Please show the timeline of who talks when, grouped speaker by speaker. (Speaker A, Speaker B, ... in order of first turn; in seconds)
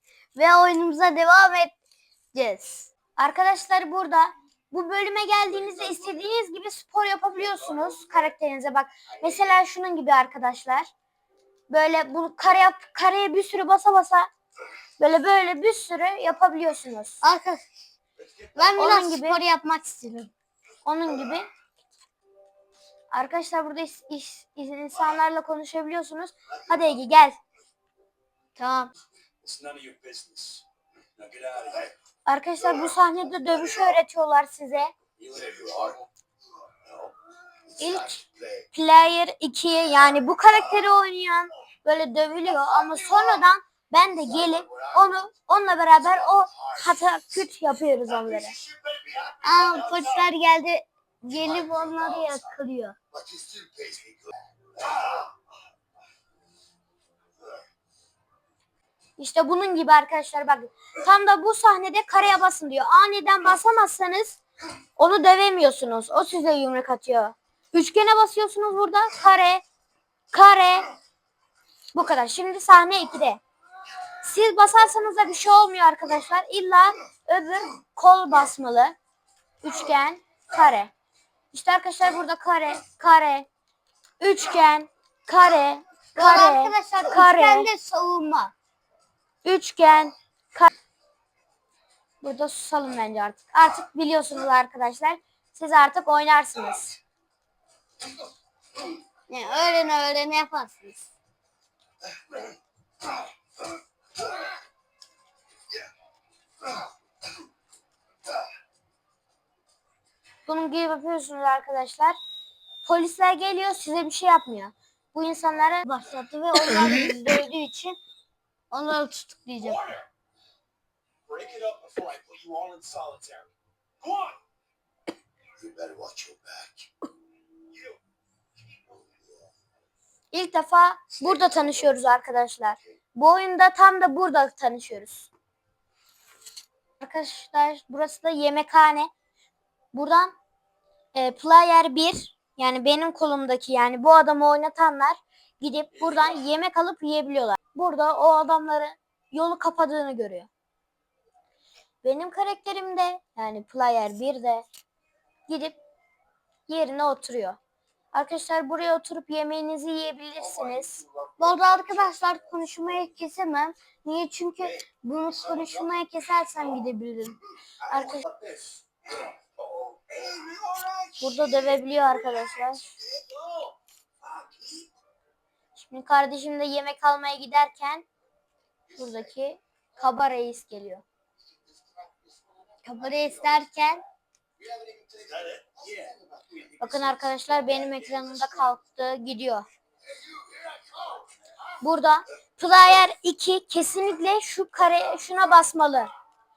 Speaker A: 0.3-1.7, 2.3-2.9, 17.2-17.6, 18.5-20.3, 28.6-28.9, 49.4-53.0, 86.2-88.5, 99.3-101.0, 115.8-118.0, 118.7-120.0, 161.4-167.4, 182.8-184.0
Speaker B: 3.2-10.9, 11.7-14.3, 15.0-17.2, 18.8-19.4, 20.9-21.5, 23.1-27.4, 32.3-34.9, 37.8-48.6, 59.2-64.4, 65.0-69.6, 70.3-70.9, 72.0-73.4, 74.2-79.0, 79.6-80.9, 81.5-83.5, 84.2-87.7, 89.4-90.7, 92.2-97.0, 110.5-112.2, 112.8-115.9, 130.3-135.3, 137.0-139.1, 139.9-140.4, 141.2-150.5, 152.0-154.7, 155.5-155.8, 156.7-157.6, 158.1-161.1, 167.9-168.3, 171.2-172.9, 175.8-178.1, 178.9-181.0, 186.8-189.7, 191.8-196.1
Speaker C: 29.4-30.6, 31.2-31.9, 35.2-36.0, 121.3-123.5, 124.1-124.3, 125.6-126.7, 170.0-170.9, 185.2-186.2